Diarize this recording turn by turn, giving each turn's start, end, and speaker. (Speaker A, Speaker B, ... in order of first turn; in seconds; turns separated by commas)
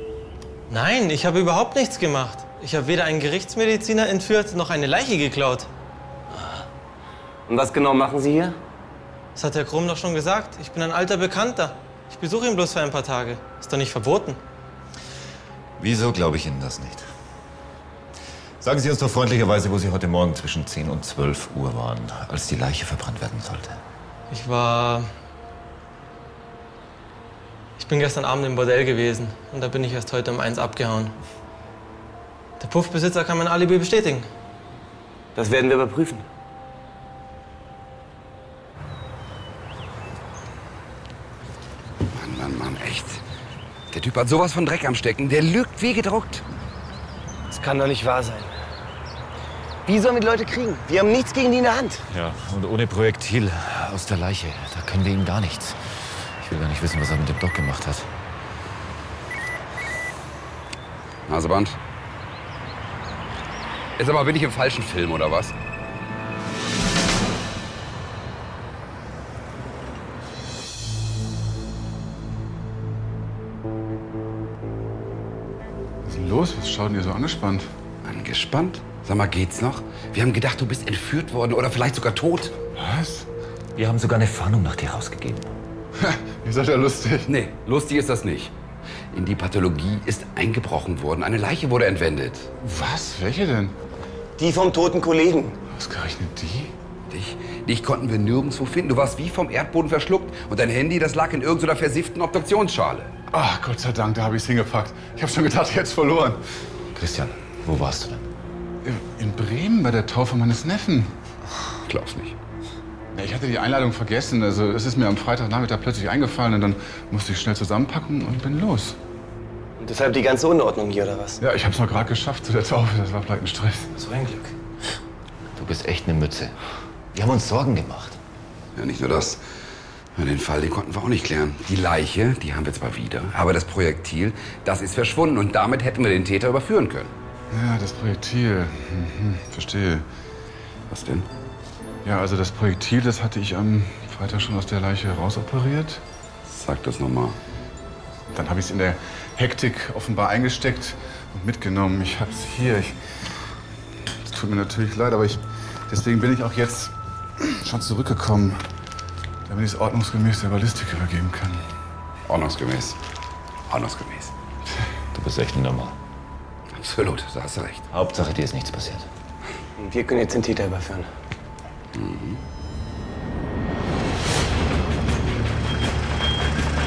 Speaker A: 0.7-5.7, Speaker B: 6.3-6.6, Speaker B: 7.5-8.6, Speaker A: 9.3-14.4, Speaker C: 15.8-17.1, Speaker C: 18.6-23.8, Speaker A: 24.3-25.1, Speaker A: 27.8-31.1, Speaker A: 32.6-34.3, Speaker B: 35.4-36.2, Speaker D: 42.1-43.2, Speaker D: 43.9-46.4, Speaker B: 47.5-48.5, Speaker B: 49.9-52.0, Speaker C: 52.1-55.8, Speaker C: 56.4-58.1, Speaker D: 61.3-61.8, Speaker D: 64.0-65.5, Speaker E: 76.0-77.7, Speaker D: 78.0-82.5, Speaker E: 82.8-83.3, Speaker C: 83.8-85.5, Speaker E: 86.0-87.3, Speaker D: 87.2-88.5, Speaker D: 89.1-92.5, Speaker E: 92.6-93.7, Speaker B: 94.4-95.6, Speaker E: 95.7-96.7, Speaker D: 97.1-103.1, Speaker E: 103.3-106.4, Speaker C: 106.9-108.3, Speaker E: 108.8-111.1, Speaker D: 111.8-112.3, Speaker E: 113.1-119.0, Speaker B: 119.8-121.4, Speaker E: 121.4-123.9, Speaker C: 123.9-124.5, Speaker C: 125.5-126.5, Speaker C: 127.1-128.2, Speaker D: 128.7-129.4, Speaker D: 130.2-137.1, Speaker E: 137.5-140.1, Speaker D: 140.9-141.3, Speaker E: 142.0-146.0, Speaker D: 146.4-147.4, Speaker E: 148.3-152.9, Speaker E: 154.2-158.6, Speaker E: 159.5-161.6, Speaker D: 162.3-163.0, Speaker D: 163.7-164.3, Speaker C: 165.1-165.9, Speaker D: 166.7-167.9, Speaker C: 167.9-169.1, Speaker B: 169.8-171.1, Speaker D: 171.9-172.4